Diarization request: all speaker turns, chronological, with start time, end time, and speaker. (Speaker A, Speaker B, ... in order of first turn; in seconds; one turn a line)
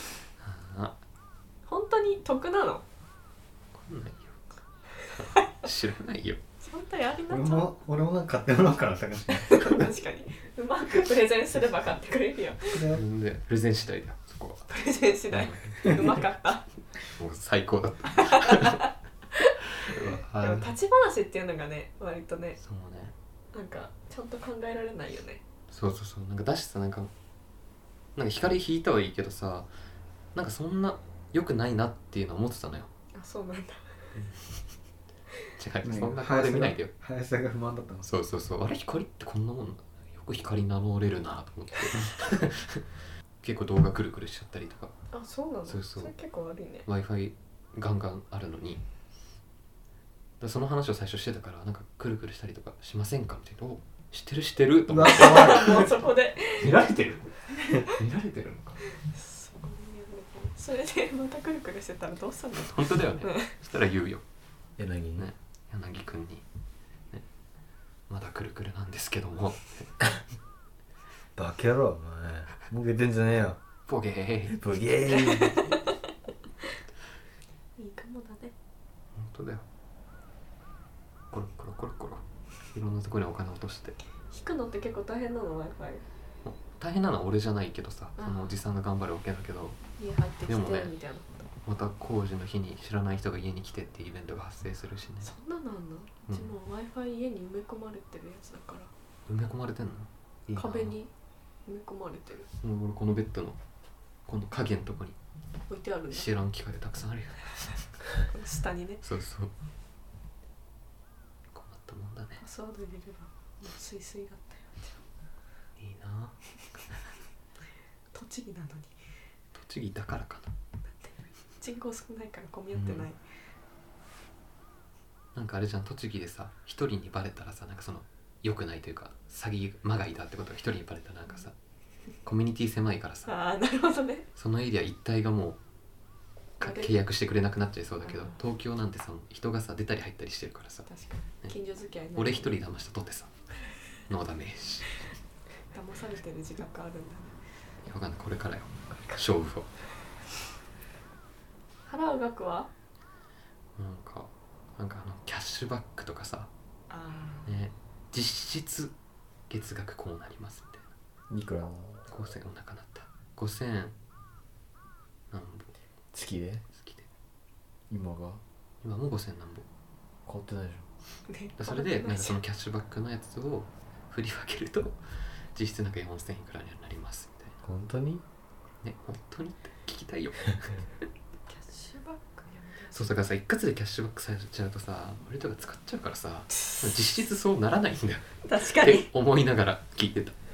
Speaker A: 0.4-0.9
Speaker B: 1.7-2.8
Speaker A: 3.7-4.4
Speaker A: 5.1-6.4
Speaker B: 6.6-7.7
Speaker C: 7.3-9.9
Speaker B: 9.4-12.8
Speaker C: 12.7-13.0
Speaker A: 12.9-14.7
Speaker B: 14.7-16.7
Speaker A: 15.3-16.3
Speaker A: 17.1-18.9
Speaker B: 18.2-22.6
Speaker A: 19.7-20.7
Speaker A: 22.6-23.1
Speaker B: 23.5-25.4
Speaker A: 25.7-27.1
Speaker A: 28.1-29.7
Speaker A: 30.3-32.9
Speaker B: 33.1-34.1
Speaker A: 34.1-34.5
Speaker A: 35.6-36.9
Speaker C: 35.8-38.1
Speaker A: 38.1-42.8
Speaker A: 43.4-44.9
Speaker B: 45.1-46.9
Speaker A: 45.7-46.1
Speaker A: 46.9-48.8
Speaker A: 50.4-55.9
Speaker C: 54.9-55.9
Speaker B: 55.0-56.9
Speaker A: 56.6-58.8
Speaker B: 57.6-57.9
Speaker B: 58.9-63.5
Speaker A: 62.6-64.2
Speaker C: 64.8-65.3
Speaker A: 65.2-66.4
Speaker A: 68.1-70.2
Speaker C: 71.3-73.6
Speaker A: 73.9-74.6
Speaker C: 74.5-75.7
Speaker B: 74.7-75.8
Speaker B: 77.8-78.5
Speaker A: 79.2-79.6
Speaker A: 81.3-84.0
Speaker B: 84.3-86.0
Speaker A: 86.4-89.8
Speaker B: 88.2-88.5
Speaker B: 90.0-91.5
Speaker A: 90.5-90.9
Speaker A: 91.6-95.3
Speaker B: 95.2-98.9
Speaker A: 96.3-96.5
Speaker A: 99.3-101.0
Speaker B: 100.5-101.1
Speaker B: 101.7-102.5
Speaker A: 102.6-103.6
Speaker A: 104.3-105.2
Speaker B: 105.7-106.3
Speaker A: 106.1-107.7
Speaker B: 108.2-109.0
Speaker A: 109.0-109.5
Speaker A: 111.5-112.4
Speaker B: 112.4-115.0
Speaker A: 115.8-116.4
Speaker B: 118.1-118.9
Speaker A: 119.5-120.5
Speaker B: 121.0-123.2
Speaker A: 122.7-123.1
Speaker A: 125.3-131.5
Speaker A: 132.2-133.3
Speaker B: 133.3-134.2
Speaker A: 134.3-135.6
Speaker A: 136.6-140.9
Speaker B: 136.6-136.9
Speaker B: 138.0-138.4
Speaker B: 140.9-142.5
Speaker A: 142.1-143.3
Speaker A: 144.1-145.0
Speaker B: 145.7-147.4
Speaker A: 147.8-149.7
Speaker B: 151.9-152.7
Speaker A: 153.8-156.5
Speaker B: 156.9-157.5
Speaker A: 157.4-158.9
Speaker A: 159.5-160.9
Speaker C: 161.3-162.1
Speaker A: 162.1-163.9
Speaker A: 165.3-165.7
Speaker C: 166.1-166.6
Speaker A: 166.7-167.1
Speaker C: 167.9-168.4
Speaker A: 168.8-169.7
Speaker C: 170.2-170.9
Speaker B: 171.3-172.4
Speaker A: 171.6-175.0
Speaker A: 175.5-177.5
Speaker C: 177.6-178.2
Speaker A: 178.8-180.9
Speaker B: 181.5-183.2
Speaker A: 182.9-190.4
Speaker B: 186.5-186.9
Speaker B: 188.4-189.1